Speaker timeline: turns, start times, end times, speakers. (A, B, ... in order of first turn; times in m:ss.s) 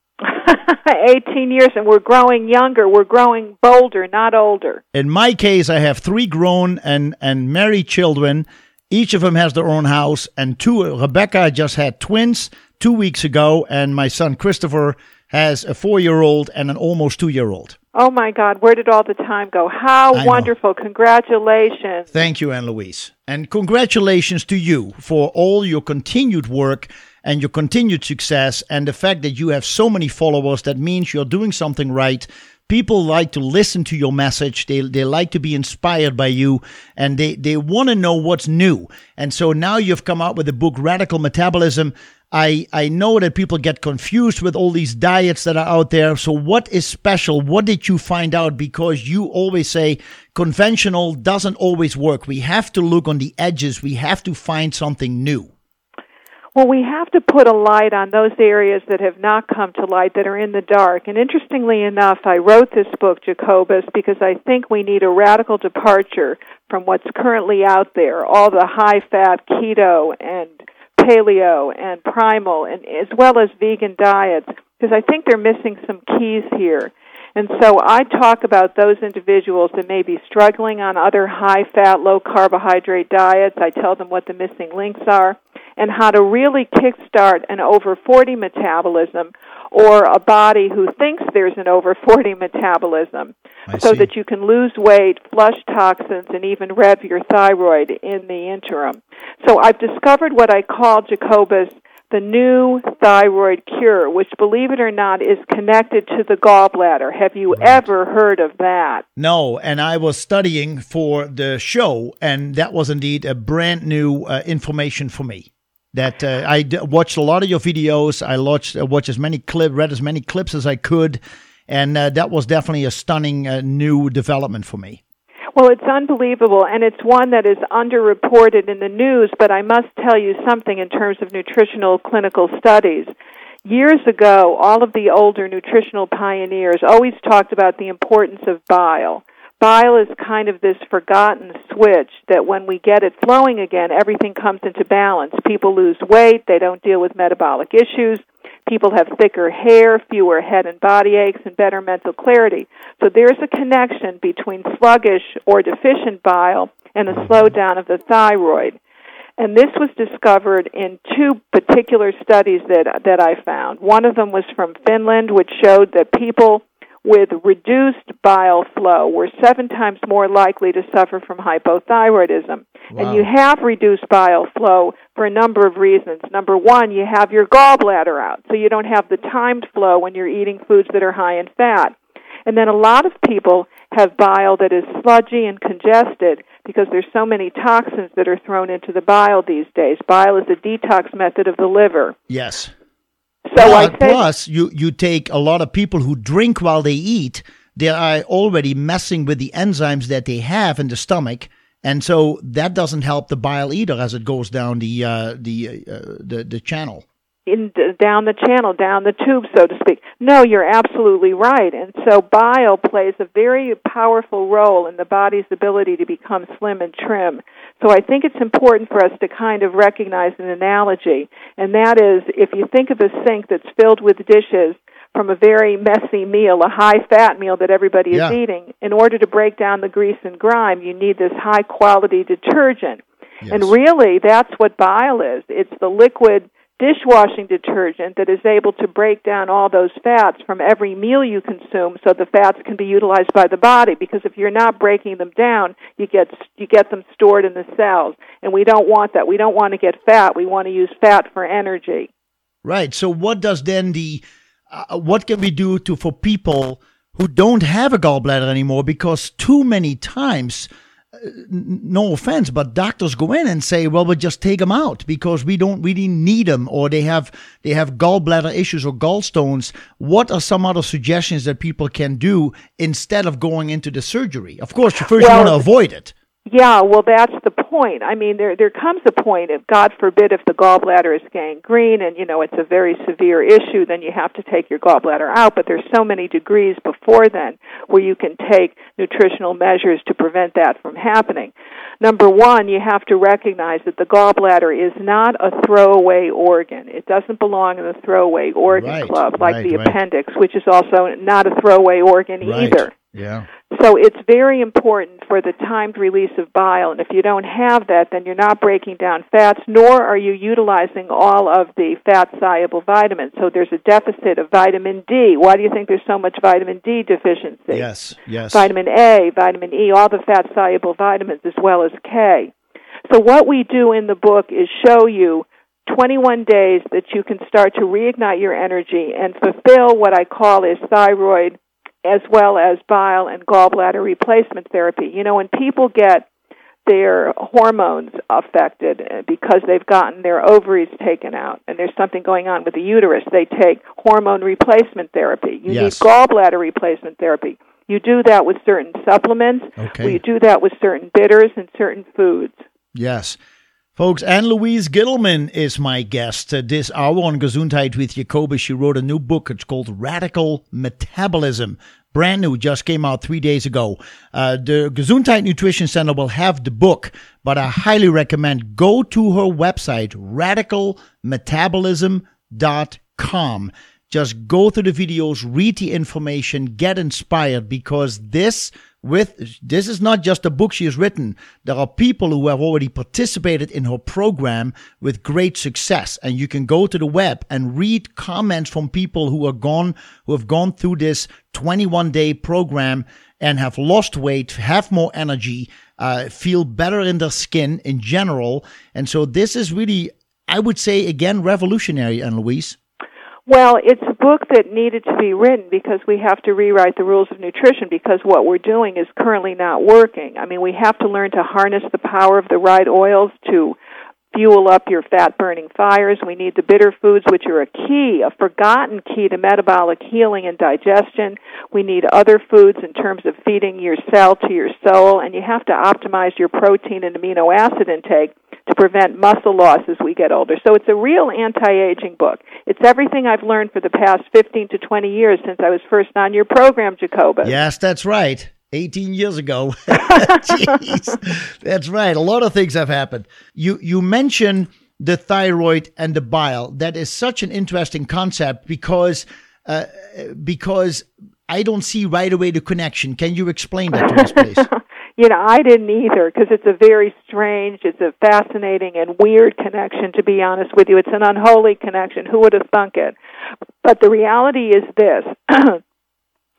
0:00.2-0:04.8 A
0:04.9-0:17.8 B
0:18.0-0:22.1 A
0:20.1-0:20.5 B
0:22.1-0:55.5 B
0:56.6-1:49.0 A
1:33.7-1:34.1 B
1:47.5-1:47.9 B
1:49.2-2:05.0 B
2:05.6-2:13.1 A
2:13.6-2:38.8 A
2:39.4-3:12.2 A
2:52.9-2:53.3 B
3:12.3-3:12.7 B
3:13.5-3:14.2 A
3:13.6-3:27.0 B
3:27.5-4:12.1 A
3:53.4-3:53.8 B
4:12.6-4:36.1 B
4:35.1-4:35.7 A
4:36.5-5:03.0 A
4:58.7-5:00.0 B
5:02.4-5:03.5 B
5:03.7-5:17.9 A
5:17.7-5:18.7 B
5:18.5-5:22.5 A
5:23.1-5:36.3 A
5:36.8-5:52.6 A
5:45.7-5:46.1 B
5:49.8-5:50.2 B
5:53.0-5:53.4 B
5:54.0-6:42.8 B
6:43.5-6:53.8 A
6:54.3-7:17.6 A
7:17.4-7:34.7 B
7:34.6-7:43.2 A
7:43.8-7:45.8 A